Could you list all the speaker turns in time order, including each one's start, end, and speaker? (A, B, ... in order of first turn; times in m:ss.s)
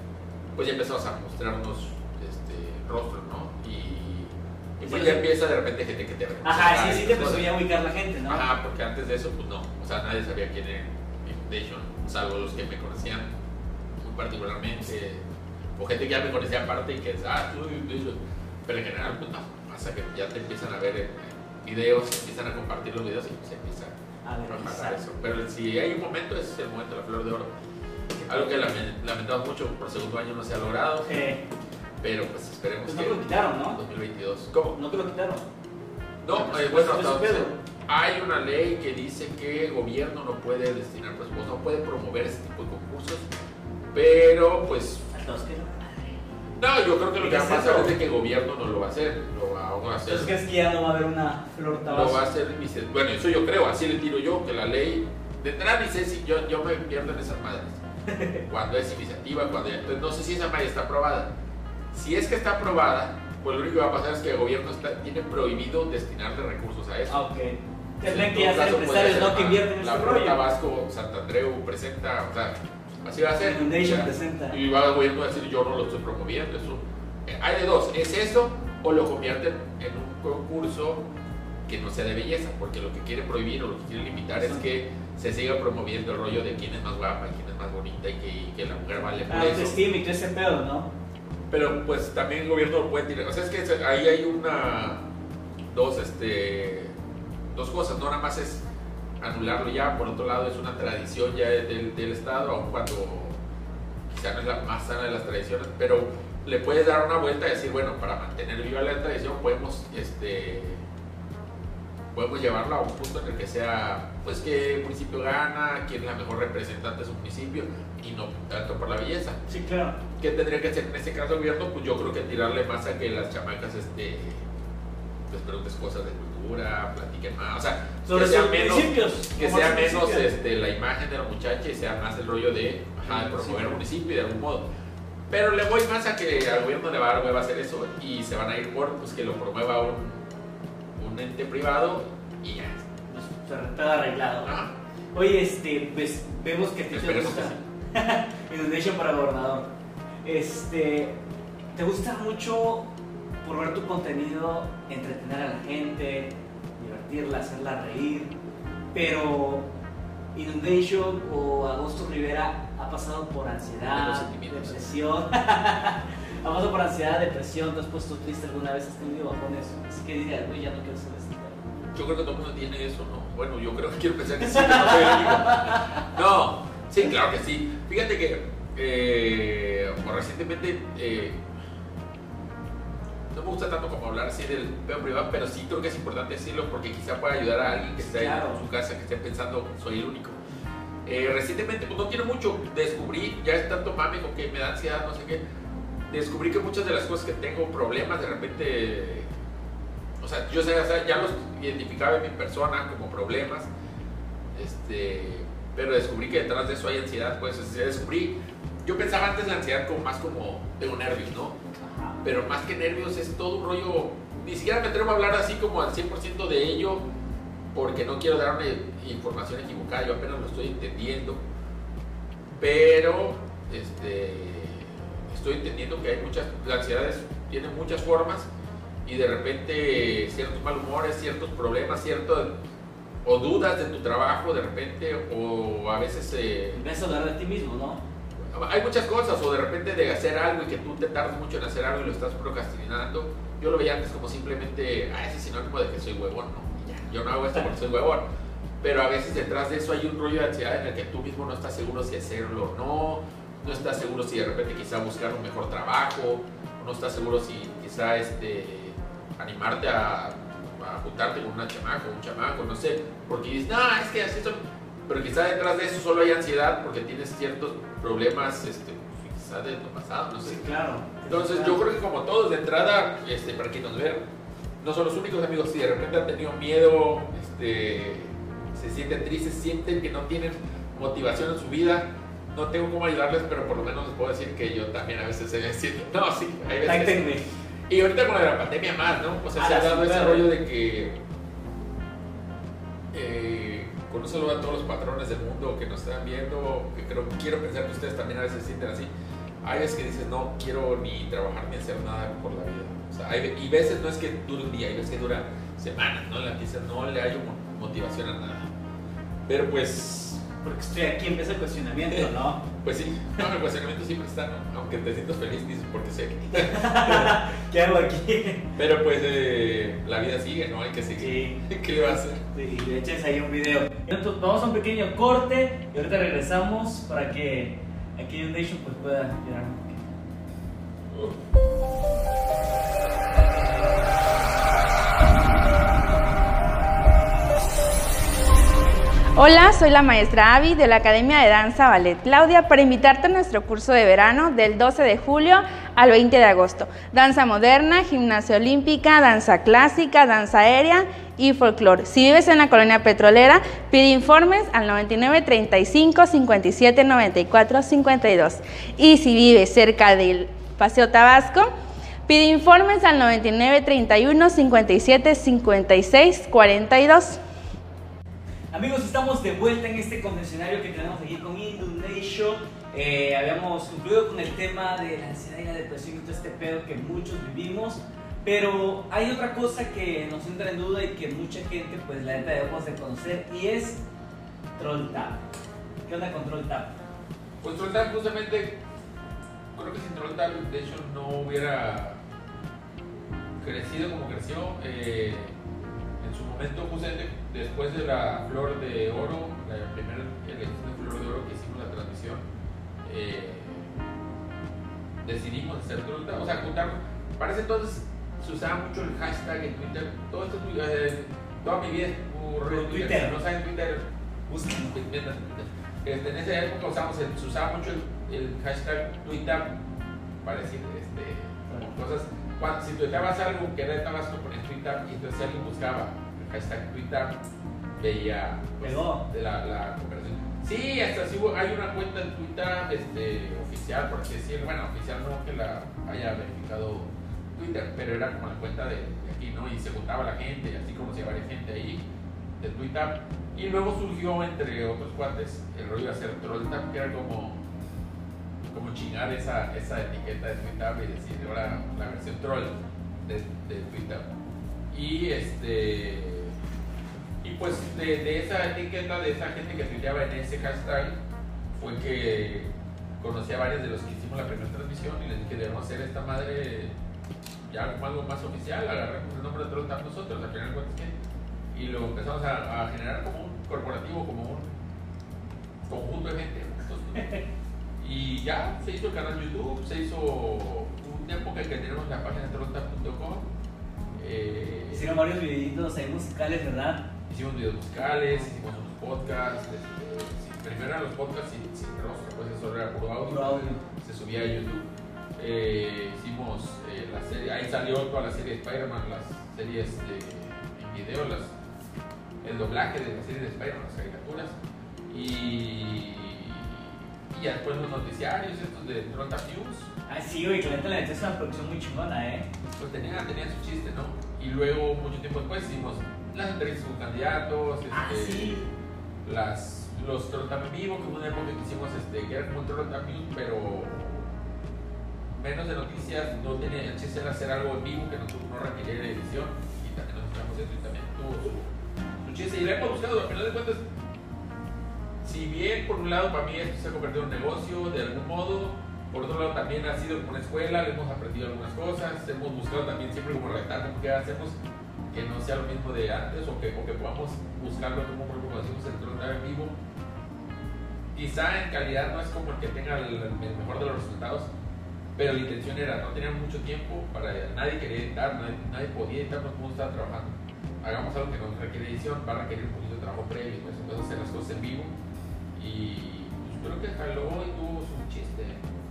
0:00.6-0:07.5 A
0:04.8-0:05.2 B
0:06.4-0:08.4 B
0:08.3-0:13.3 A
0:14.0-0:15.2 A
0:15.8-0:24.0 A
0:24.2-0:25.0 B
0:24.5-0:27.5 A
0:28.2-0:28.6 B
0:28.3-0:31.2 A
0:31.0-0:31.4 B
0:32.0-0:34.8 A
0:32.8-0:33.8 B
0:34.7-0:35.5 B
0:36.2-0:43.3 A
0:36.3-0:37.6 B
0:43.9-0:45.1 A
0:45.1-0:46.2 B
0:46.6-0:50.3 A
0:47.2-0:47.9 B
0:50.1-0:52.2 B
0:51.9-0:57.8 A
0:58.1-0:58.4 B
0:58.5-1:01.3 A
1:01.9-1:07.2 A
1:07.1-1:10.4 B
1:08.0-1:21.0 A
1:13.4-1:14.6 B
1:21.7-1:29.8 A
1:29.3-1:30.9 B
1:31.5-1:35.0 A
1:35.7-1:36.9 A
1:37.5-1:38.6 A
1:39.2-1:43.4 A
1:44.1-1:50.8 A
1:52.1-1:59.4 A
1:59.5-2:00.0 B
2:00.2-2:04.5 A
2:05.3-2:14.6 A
2:08.1-2:10.3 B
2:13.1-2:13.8 B
2:15.3-2:20.2 A
2:21.0-2:22.9 A
2:23.1-2:24.5 B
2:24.4-2:24.7 A
2:25.1-2:29.7 B
2:26.9-2:27.6 A
2:30.2-2:31.2 B
2:31.8-2:32.9 B
2:33.4-2:38.3 B
2:38.9-2:39.7 B
2:40.3-2:51.6 B
2:43.9-2:44.8 A
2:51.9-3:01.4 A
2:54.4-2:56.0 B
3:03.3-3:10.4 A
3:08.0-3:08.6 B
3:11.0-3:15.4 A
3:16.1-3:19.3 A
3:20.2-3:23.7 A
3:24.5-3:31.6 A
3:31.8-3:32.2 B
3:32.2-3:37.0 A
3:37.7-3:41.4 A
3:42.5-3:48.5 A
3:49.0-3:52.5 A
3:53.2-3:56.8 A
3:56.7-3:58.0 B
3:58.5-4:08.2 A
4:08.8-4:30.6 A
4:30.4-4:31.8 B
4:31.3-4:34.2 A
4:34.8-4:51.2 A
4:46.8-4:47.4 B
4:49.6-4:50.5 B
4:53.1-4:59.1 A
4:59.6-5:08.7 A
5:09.4-5:10.5 A
5:10.6-5:12.6 B
5:12.8-5:17.4 A
5:16.5-5:18.7 B
5:18.8-5:22.4 A
5:21.2-5:21.6 B
5:22.5-5:30.0 B
5:31.1-5:31.4 A
5:39.4-6:01.7 C
6:02.3-6:07.4 C
6:08.7-6:24.0 B
6:24.8-6:25.4 B
6:26.1-6:27.0 B
6:27.6-6:28.8 A
6:29.7-6:32.2 A
6:33.6-6:35.6 A
6:36.2-6:42.5 A
6:43.0-6:44.0 A
6:45.2-6:54.1 A
6:52.7-6:53.4 B
6:54.5-6:55.0 B
6:54.8-6:59.8 A
7:00.4-7:07.4 A
7:08.0-7:22.0 A
7:08.8-7:09.2 B
7:22.6-7:27.6 A
7:28.7-7:34.3 A
7:34.9-7:36.6 A
7:37.4-7:41.2 A
7:41.7-7:46.9 A
7:47.7-7:51.1 A
7:51.7-7:54.8 A
7:55.9-7:57.3 A
7:57.2-7:57.4 B
7:58.0-8:03.5 A
8:04.2-8:05.1 A
8:04.9-8:07.1 B
8:07.3-8:21.5 A
8:13.3-8:13.8 B
8:22.4-8:24.6 A
8:25.1-8:29.9 A
8:30.1-8:32.5 B
8:32.8-8:38.7 A
8:37.9-8:38.7 B
8:39.2-8:44.3 A
8:45.3-8:51.7 A
8:52.2-8:53.8 A
8:55.2-9:04.6 A
9:05.1-9:09.8 A
9:11.1-9:14.5 A
9:15.2-9:25.0 A
9:25.6-9:28.6 A